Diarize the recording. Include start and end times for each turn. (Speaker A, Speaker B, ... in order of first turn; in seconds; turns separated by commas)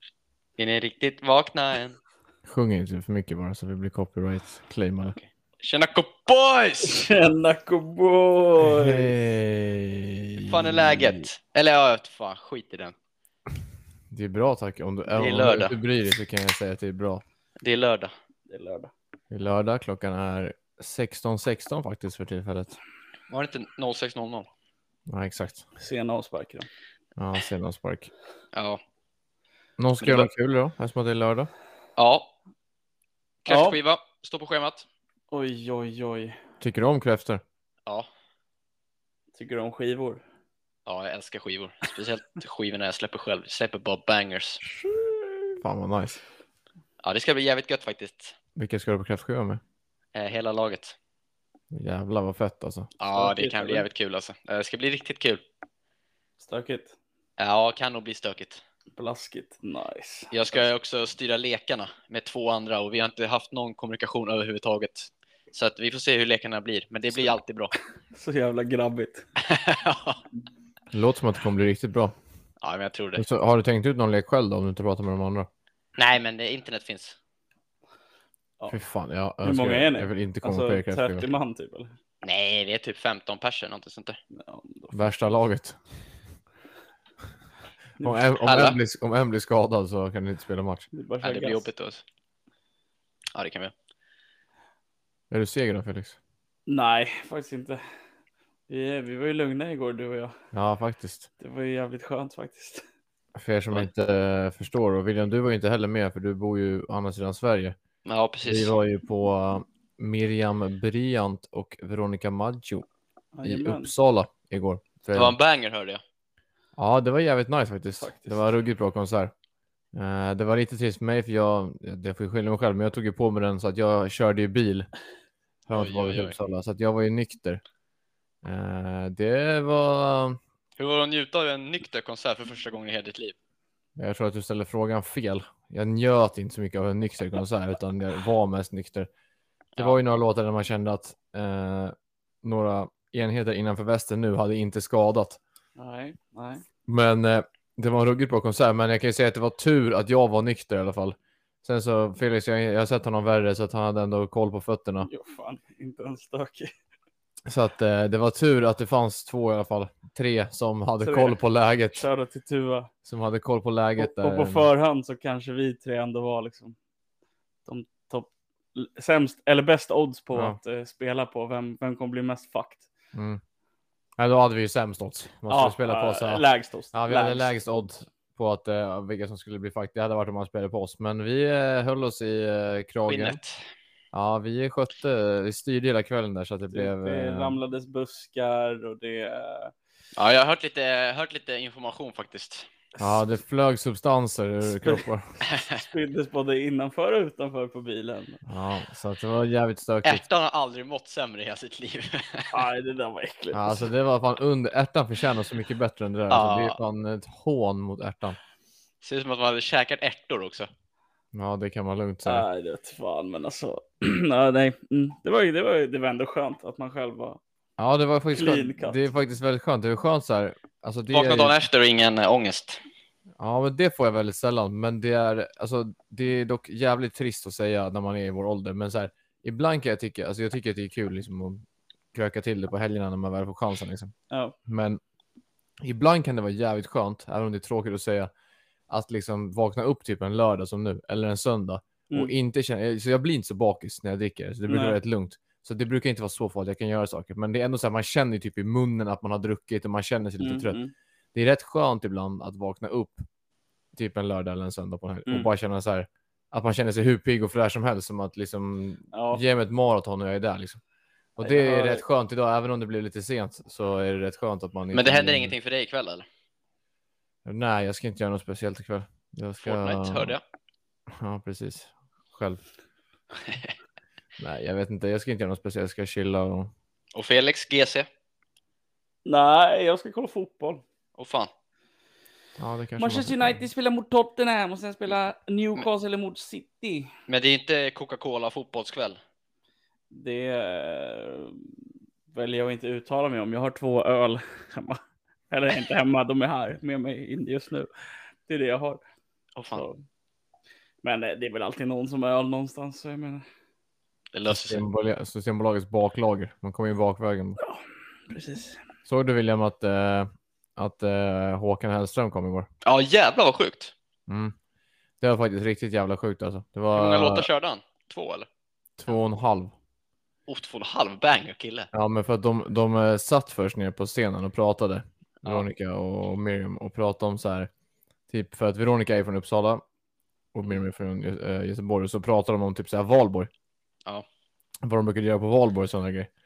Speaker A: 0.6-1.9, Speaker B: 2.5-5.2, Speaker A: 5.1-7.1, Speaker C: 6.8-9.1, Speaker B: 8.6-11.3, Speaker A: 10.4-12.9, Speaker B: 14.1-17.2, Speaker A: 15.1-15.8, Speaker A: 17.6-18.1, Speaker C: 18.5-18.9, Speaker B: 19.3-22.7, Speaker A: 23.3-24.5, Speaker B: 25.1-25.6, Speaker C: 25.8-26.7, Speaker B: 27.2-28.1, Speaker A: 28.5-28.8, Speaker B: 29.8-31.5, Speaker A: 30.0-30.3, Speaker A: 32.0-32.3, Speaker A: 33.4-34.8, Speaker C: 33.5-33.8, Speaker C: 35.3-36.4, Speaker B: 36.6-37.4, Speaker C: 39.3-40.2, Speaker A: 40.9-44.6, Speaker C: 44.6-45.6, Speaker B: 45.6-46.2, Speaker A: 47.0-48.3, Speaker B: 48.5-49.6, Speaker A: 50.1-51.0, Speaker B: 51.7-52.9, Speaker A: 53.0-55.4, Speaker C: 53.1-53.9, Speaker C: 56.4-56.9, Speaker A: 57.4-58.6, Speaker C: 58.9-60.7, Speaker A: 60.3-67.7, Speaker C: 68.1-69.2, Speaker A: 69.4-70.2, Speaker B: 70.9-72.1, Speaker A: 72.6-73.2, Speaker B: 73.2-75.5, Speaker A: 76.0-77.2, Speaker B: 78.7-81.3, Speaker C: 79.4-81.9, Speaker A: 82.2-84.2, Speaker C: 84.3-85.3, Speaker B: 84.9-85.8, Speaker C: 88.0-88.3, Speaker B: 88.0-90.9, Speaker A: 88.4-88.8, Speaker C: 90.9-91.7, Speaker A: 91.2-92.0, Speaker A: 93.3-93.7, Speaker B: 95.3-96.2, Speaker C: 96.7-97.8, Speaker C: 98.7-100.3, Speaker B: 100.5-101.3, Speaker C: 101.4-102.8, Speaker B: 103.3-107.8, Speaker A: 108.0-108.7, Speaker B: 108.5-112.8, Speaker C: 113.3-113.9, Speaker B: 113.4-115.3, Speaker A: 115.1-116.0, Speaker B: 116.8-119.3, Speaker C: 118.0-118.4, Speaker B: 119.9-124.9, Speaker B: 125.7-127.6, Speaker A: 125.7-126.3, Speaker B: 128.4-130.4, Speaker A: 130.8-133.3, Speaker B: 134.0-139.1, Speaker B: 139.8-145.4, Speaker C: 145.8-146.6, Speaker B: 146.9-155.1, Speaker C: 155.0-156.7, Speaker B: 157.5-162.1, Speaker C: 161.0-161.4, Speaker C: 161.9-162.9, Speaker B: 163.1-164.7, Speaker C: 164.0-166.7, Speaker C: 167.7-172.9, Speaker B: 173.1-173.4, Speaker B: 174.2-183.4, Speaker C: 175.5-177.8, Speaker A: 183.1-183.6, Speaker B: 184.1-187.6, Speaker C: 186.7-189.7, Speaker A: 190.2-192.7, Speaker B: 193.0-195.3, Speaker C: 194.7-195.0, Speaker A: 195.5-195.8, Speaker C: 195.6-198.4, Speaker B: 198.5-200.2, Speaker A: 200.0-202.6, Speaker C: 202.5-203.9, Speaker B: 203.5-208.4, Speaker A: 206.3-206.8, Speaker A: 209.0-210.7, Speaker B: 211.3-212.4, Speaker C: 212.2-217.4, Speaker B: 217.8-221.5, Speaker C: 218.3-219.0, Speaker A: 221.1-222.8, Speaker B: 223.4-231.6, Speaker B: 232.1-234.1, Speaker C: 234.3-234.5, Speaker B: 234.7-235.0, Speaker B: 235.8-238.3, Speaker B: 238.9-250.8, Speaker C: 244.7-245.0, Speaker C: 250.4-250.9, Speaker B: 251.3-253.2, Speaker B: 253.9-260.8, Speaker C: 259.1-259.4, Speaker B: 261.4-265.5, Speaker C: 261.4-262.0, Speaker A: 264.9-266.2, Speaker B: 267.4-270.3, Speaker A: 269.6-270.4, Speaker B: 271.1-272.6, Speaker A: 273.5-273.7, Speaker B: 274.4-276.7, Speaker A: 277.1-278.1, Speaker C: 279.2-280.8, Speaker A: 281.2-281.5, Speaker B: 282.6-283.6, Speaker C: 283.0-287.1, Speaker A: 287.3-289.2, Speaker C: 290.1-291.7, Speaker C: 292.3-295.0, Speaker C: 295.5-297.9, Speaker C: 298.5-299.0, Speaker A: 299.6-299.8, Speaker C: 299.7-300.0, Speaker C: 301.0-303.4, Speaker A: 304.3-304.8, Speaker B: 304.5-307.6, Speaker C: 307.6-308.8, Speaker B: 309.1-312.7, Speaker A: 312.8-313.9, Speaker B: 314.3-314.5, Speaker B: 315.2-317.5, Speaker A: 316.9-318.5, Speaker B: 319.0-319.7, Speaker A: 320.5-321.9, Speaker B: 321.9-327.7, Speaker B: 328.3-329.8, Speaker B: 330.5-333.5, Speaker B: 334.8-336.3